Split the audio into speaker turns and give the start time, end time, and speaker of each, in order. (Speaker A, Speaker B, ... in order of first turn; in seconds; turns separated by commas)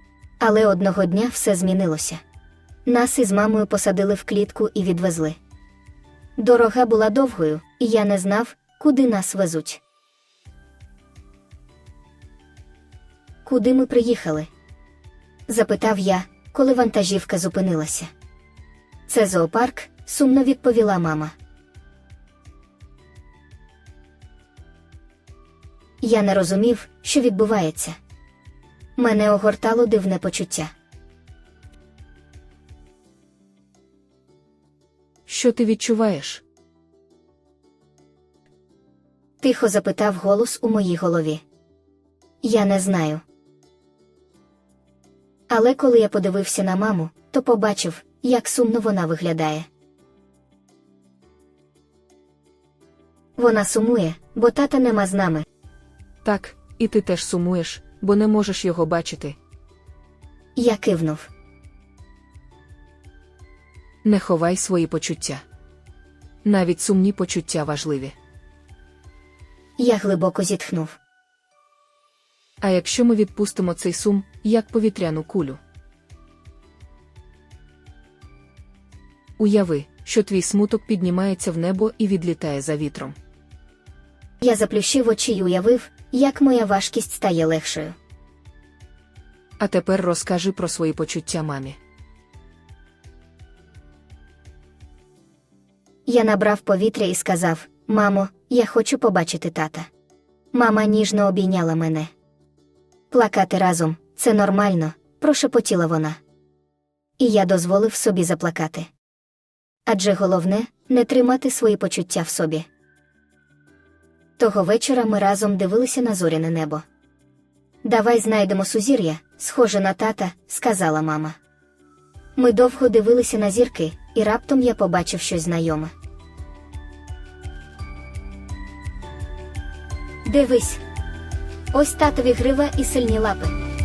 Speaker A: 0.4-2.2, Speaker A: 2.9-5.4, Speaker A: 6.4-9.8, Speaker A: 13.4-14.5, Speaker A: 15.5-18.1, Speaker A: 19.1-21.3, Speaker A: 26.0-28.0, Speaker A: 29.0-30.7, Speaker B: 35.3-36.4, Speaker A: 39.4-41.4, Speaker A: 42.4-43.2, Speaker A: 45.5-49.7, Speaker A: 53.4-55.5, Speaker B: 56.2-59.4, Speaker A: 60.6-61.3, Speaker B: 64.0-65.4, Speaker B: 66.4-68.1, Speaker A: 69.8-71.0, Speaker B: 72.6-75.6, Speaker B: 79.4-83.2, Speaker A: 84.4-88.0, Speaker B: 89.6-91.8, Speaker A: 96.1-99.9, Speaker A: 100.5-102.1, Speaker A: 103.1-106.2, Speaker A: 107.2-108.9, Speaker A: 109.9-112.7, Speaker A: 114.4-116.8, Speaker A: 117.8-121.4, Speaker A: 122.4-125.9, Speaker A: 130.2-130.8, Speaker A: 131.7-133.6